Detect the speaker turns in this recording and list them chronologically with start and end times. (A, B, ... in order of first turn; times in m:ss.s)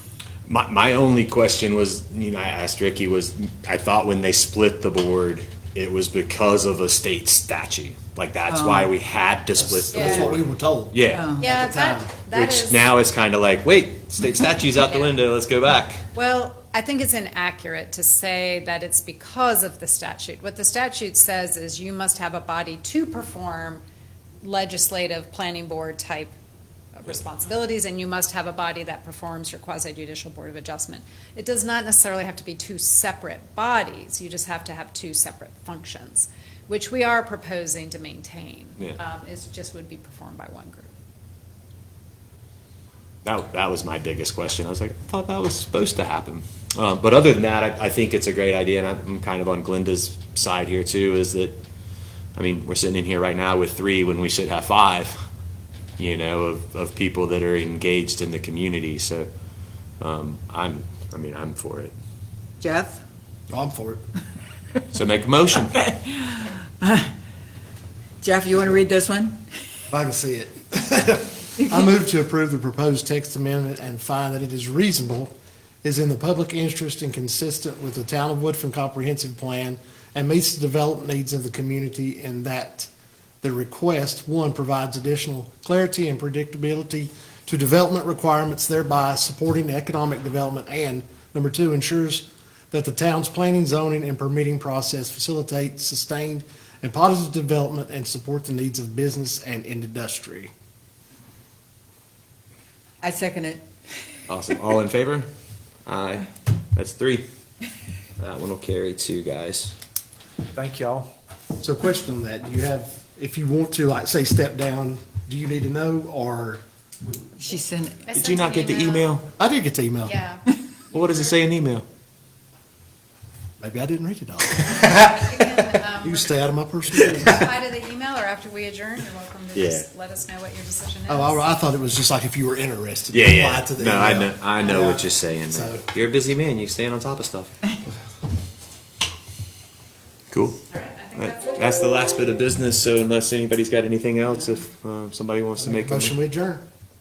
0:00.5-0:11.3 A
0:08.5-0:08.9 B
0:09.6-0:12.1 C
0:09.9-0:10.3 D
0:11.1-0:11.4 B
0:11.4-0:12.9 D
0:12.3-0:16.0 A
0:16.1-0:23.8 D
0:24.4-0:26.3 D
0:27.0-0:40.9 D
0:43.2-0:51.6 A
0:52.4-0:55.1 A
0:56.0-0:59.3 A
1:00.0-1:01.9 A
1:02.6-1:03.0 B
1:03.5-1:04.0 C
1:04.9-1:05.9 A
1:06.3-1:07.1 B
1:08.2-1:09.4 B
1:09.9-1:22.9 C
1:23.4-1:40.5 C
1:43.0-1:43.6 B
1:44.3-1:45.3 A
1:45.8-1:47.3 A
1:48.2-1:49.7 A
1:51.6-1:56.6 C
1:57.4-1:58.0 B
1:58.0-1:59.2 D
1:58.1-1:59.3 A
1:59.3-2:00.2 C
2:00.0-2:01.3 D
2:00.9-2:01.8 A
2:03.6-2:07.5 C
2:04.7-2:06.3 D
2:07.2-2:11.4 D
2:09.5-2:09.8 A
2:11.1-2:15.8 C
2:13.1-2:17.5 A
2:20.3-2:20.6 A
2:20.7-2:21.5 D
2:21.1-2:26.2 A
2:25.6-2:26.6 C